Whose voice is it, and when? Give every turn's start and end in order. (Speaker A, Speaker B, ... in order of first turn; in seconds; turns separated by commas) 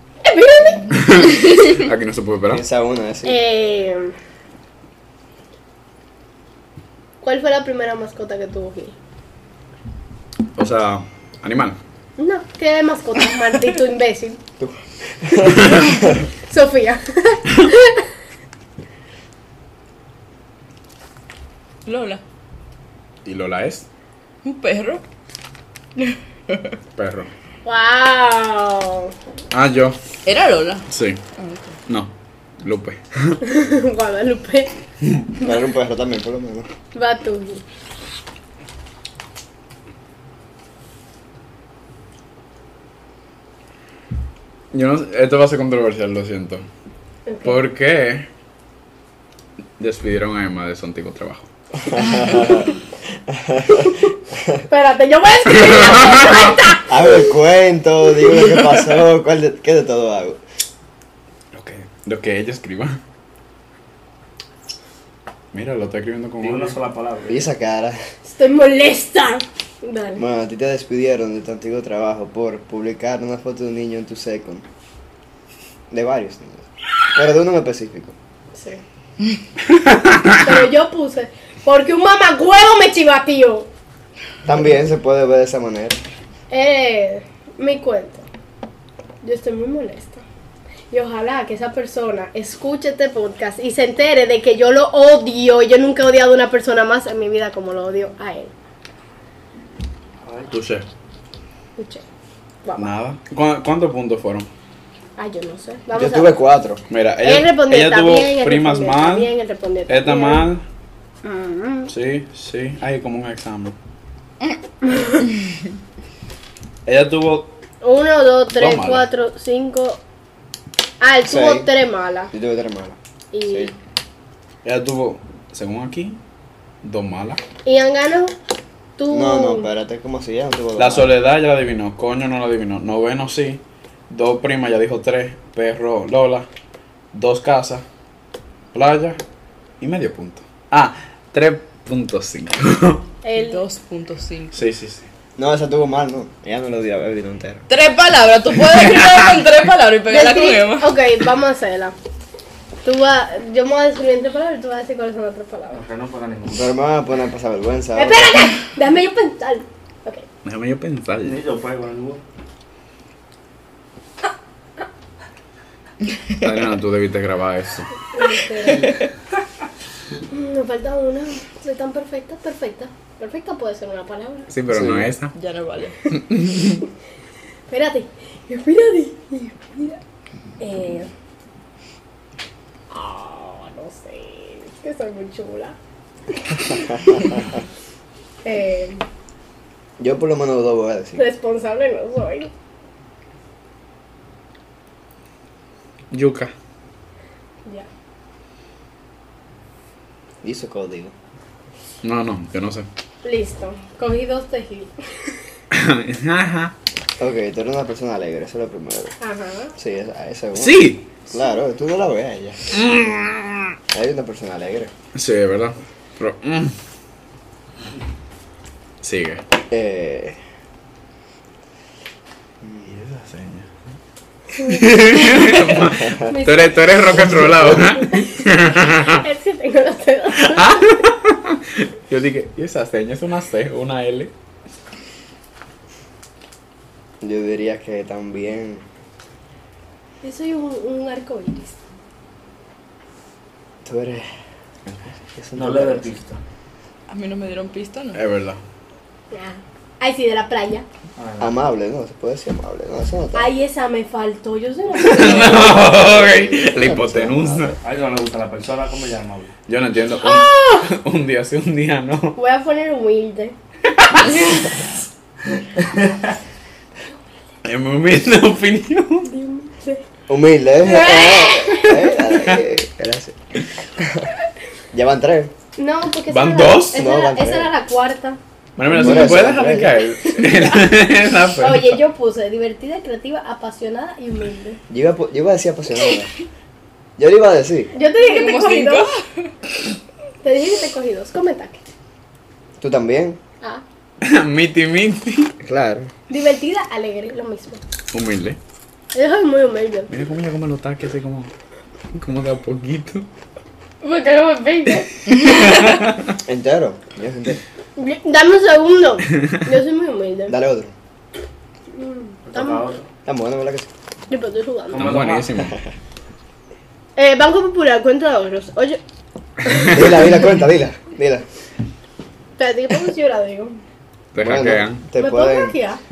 Speaker A: 0.2-1.0, Speaker B: 0.9-2.6, Speaker C: 2.5-3.4, Speaker A: 3.2-4.1, Speaker A: 7.2-8.9, Speaker B: 10.6-11.8, Speaker A: 12.2-14.4, Speaker C: 14.6-16.1, Speaker A: 16.5-18.0, Speaker D: 21.8-22.2, Speaker B: 23.2-23.9, Speaker D: 24.4-25.0, Speaker D: 26.0-26.7, Speaker B: 27.0-27.3, Speaker A: 27.6-29.1, Speaker B: 29.5-30.0, Speaker D: 30.2-30.9, Speaker B: 30.9-31.2, Speaker D: 31.4-31.8, Speaker B: 31.9-33.4, Speaker A: 33.4-34.7, Speaker C: 35.4-36.7, Speaker A: 36.9-37.6, Speaker B: 44.7-46.6, Speaker A: 47.3-47.6, Speaker B: 47.4-48.3, Speaker B: 49.8-51.5, Speaker C: 51.8-52.7, Speaker C: 53.3-54.5, Speaker A: 54.7-57.1, Speaker B: 55.6-56.6, Speaker C: 56.9-60.4, Speaker B: 61.5-63.0, Speaker B: 65.5-66.8, Speaker E: 66.4-67.5, Speaker C: 67.3-68.0, Speaker A: 68.2-70.2, Speaker C: 70.2-74.6, Speaker C: 75.9-78.1, Speaker A: 78.5-78.8, Speaker B: 79.7-80.5, Speaker A: 80.4-83.7, Speaker C: 84.4-86.0, Speaker A: 86.5-88.2, Speaker A: 89.2-90.2, Speaker A: 90.9-98.5, Speaker E: 100.2-100.5, Speaker B: 100.5-100.9, Speaker A: 101.8-102.0, Speaker A: 102.6-102.9, Speaker B: 102.8-104.5, Speaker A: 105.2-106.4, Speaker C: 105.9-106.8, Speaker B: 106.9-109.3, Speaker A: 107.2-110.5, Speaker B: 109.9-110.6, Speaker A: 111.2-111.9, Speaker B: 111.9-113.7, Speaker B: 116.8-117.5, Speaker A: 117.8-120.0, Speaker B: 118.6-119.1, Speaker A: 121.0-122.3, Speaker C: 121.2-121.7, Speaker C: 122.3-123.7, Speaker A: 123.3-123.7, Speaker B: 124.6-126.2, Speaker B: 126.8-127.4, Speaker A: 127.6-128.3, Speaker A: 129.0-129.7, Speaker C: 129.1-131.1, Speaker B: 130.8-136.5, Speaker B: 137.1-137.8, Speaker B: 138.7-139.2, Speaker B: 139.8-143.0, Speaker A: 143.2-143.6, Speaker D: 143.3-144.6, Speaker B: 144.5-145.1, Speaker C: 145.4-147.6, Speaker D: 147.7-151.0, Speaker B: 148.7-149.2, Speaker A: 150.1-151.9, Speaker A: 152.8-155.8, Speaker E: 155.7-156.7, Speaker C: 156.5-158.4, Speaker A: 157.9-160.2, Speaker B: 160.4-161.4, Speaker E: 161.2-162.2, Speaker B: 166.4-167.9, Speaker A: 168.1-169.0, Speaker D: 168.7-169.0, Speaker A: 170.3-174.5, Speaker B: 174.5-175.3, Speaker C: 174.7-175.1, Speaker D: 175.3-176.0, Speaker B: 176.1-176.8, Speaker A: 177.7-180.0, Speaker A: 180.6-181.1, Speaker A: 182.9-185.8, Speaker A: 188.4-189.0, Speaker C: 190.0-191.2, Speaker A: 191.2-192.5, Speaker B: 196.1-196.5, Speaker C: 200.4-201.1, Speaker B: 202.0-202.9, Speaker A: 203.2-205.3, Speaker B: 205.7-206.7, Speaker C: 207.2-209.2, Speaker A: 209.2-209.7, Speaker C: 209.7-212.7, Speaker B: 210.6-211.1, Speaker B: 212.7-213.7, Speaker C: 213.9-214.9, Speaker B: 215.1-216.7, Speaker B: 219.0-219.4, Speaker C: 219.7-220.4, Speaker C: 222.6-222.9, Speaker B: 222.8-223.7, Speaker B: 224.6-229.2, Speaker A: 226.2-226.9, Speaker C: 227.2-227.8, Speaker A: 228.1-231.0, Speaker B: 230.3-234.3, Speaker C: 237.2-238.8, Speaker A: 240.2-241.8, Speaker C: 243.8-244.3, Speaker B: 244.9-245.1, Speaker C: 245.3-246.1, Speaker E: 245.5-246.4, Speaker D: 247.1-248.2, Speaker B: 248.1-248.6, Speaker A: 249.3-250.8, Speaker E: 251.2-251.6, Speaker C: 251.4-253.5, Speaker A: 253.3-255.9, Speaker B: 255.0-257.7, Speaker C: 255.1-257.8, Speaker E: 257.8-259.5, Speaker B: 259.7-262.4, Speaker A: 260.2-260.9, Speaker A: 262.3-263.5, Speaker B: 263.9-264.6, Speaker B: 267.6-269.3, Speaker A: 269.2-270.0, Speaker C: 270.3-273.4, Speaker A: 270.8-272.2, Speaker C: 274.0-274.3, Speaker C: 274.9-275.5, Speaker A: 275.8-278.4, Speaker B: 276.3-277.0, Speaker C: 276.9-277.7, Speaker B: 278.8-282.0, Speaker C: 278.9-280.1, Speaker A: 280.2-280.9, Speaker A: 281.6-284.8, Speaker C: 284.9-286.3, Speaker C: 287.2-287.9, Speaker A: 287.9-289.1, Speaker D: 288.1-289.5, Speaker A: 290.4-291.8, Speaker C: 292.8-293.4, Speaker B: 294.2-295.5, Speaker C: 295.6-296.1, Speaker A: 296.3-297.8, Speaker B: 298.1-298.6, Speaker A: 299.1-300.1, Speaker B: 300.1-301.5, Speaker B: 302.1-303.3, Speaker A: 304.0-305.9, Speaker B: 305.4-306.4, Speaker C: 306.4-307.6, Speaker A: 308.0-310.5, Speaker C: 310.5-310.9, Speaker A: 311.9-312.8, Speaker E: 312.5-313.1, Speaker C: 313.2-313.9, Speaker A: 314.3-315.1, Speaker E: 314.9-315.5, Speaker B: 314.9-315.8, Speaker A: 317.1-319.0, Speaker B: 319.7-320.3, Speaker C: 319.9-321.4, Speaker A: 322.6-323.8, Speaker B: 324.3-325.0, Speaker C: 324.4-325.8, Speaker A: 325.1-326.0